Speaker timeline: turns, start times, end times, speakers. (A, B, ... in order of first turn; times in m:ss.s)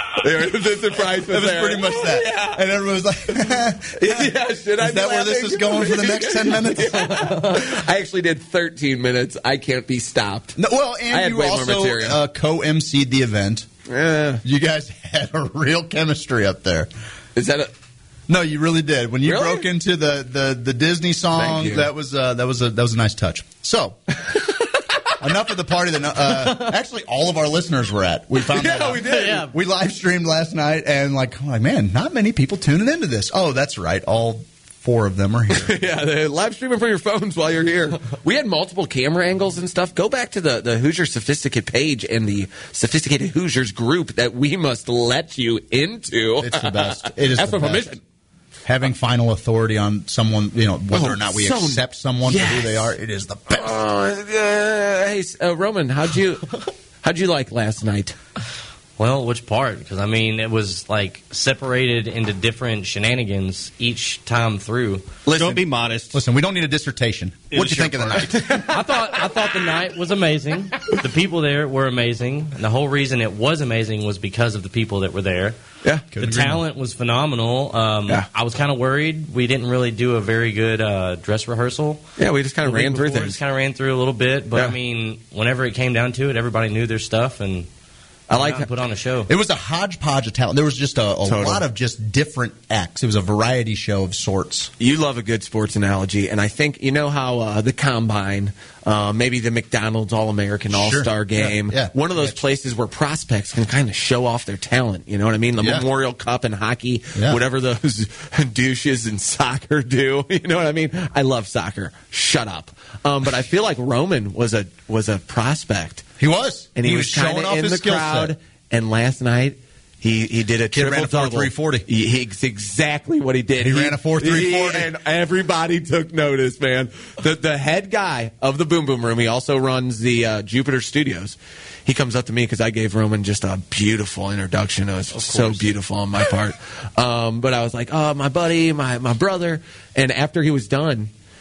0:00.2-0:02.6 A
0:01.1-0:07.2 B
0:04.0-0:10.6 A
0:10.6-0:13.7 B
0:11.1-0:12.2 A
0:13.9-0:14.4 A
0:14.4-0:16.9 B
0:17.4-0:17.7 A
0:18.3-0:24.0 B
0:19.2-0:19.7 A
0:21.4-0:21.9 A
0:25.2-0:35.8 B
0:28.5-0:29.5 A
0:29.1-0:29.5 C
0:35.5-0:48.0 A
0:46.4-0:48.0 B
0:48.6-0:53.8 B
0:50.9-0:52.9 A
0:53.5-0:56.5 A
0:57.0-0:58.2 A
0:59.0-1:05.1 C
1:05.2-1:05.6 A
1:05.3-1:06.2 D
1:06.1-1:08.6 B
1:07.5-1:08.4 D
1:08.4-1:08.7 A
1:08.7-1:15.6 C
1:16.1-1:16.6 B
1:16.2-1:22.0 C
1:22.2-1:23.4 A
1:22.6-1:27.7 C
1:28.3-1:28.7 A
1:28.3-1:29.3 C
1:29.3-1:34.7 B
1:31.2-1:31.6 A
1:34.8-1:56.0 A
1:40.7-1:42.4 B
1:45.6-1:45.9 B
1:56.2-1:58.4 B
1:56.8-2:21.1 A
2:00.7-2:01.9 B
2:03.6-2:04.9 B
2:15.2-2:15.6 D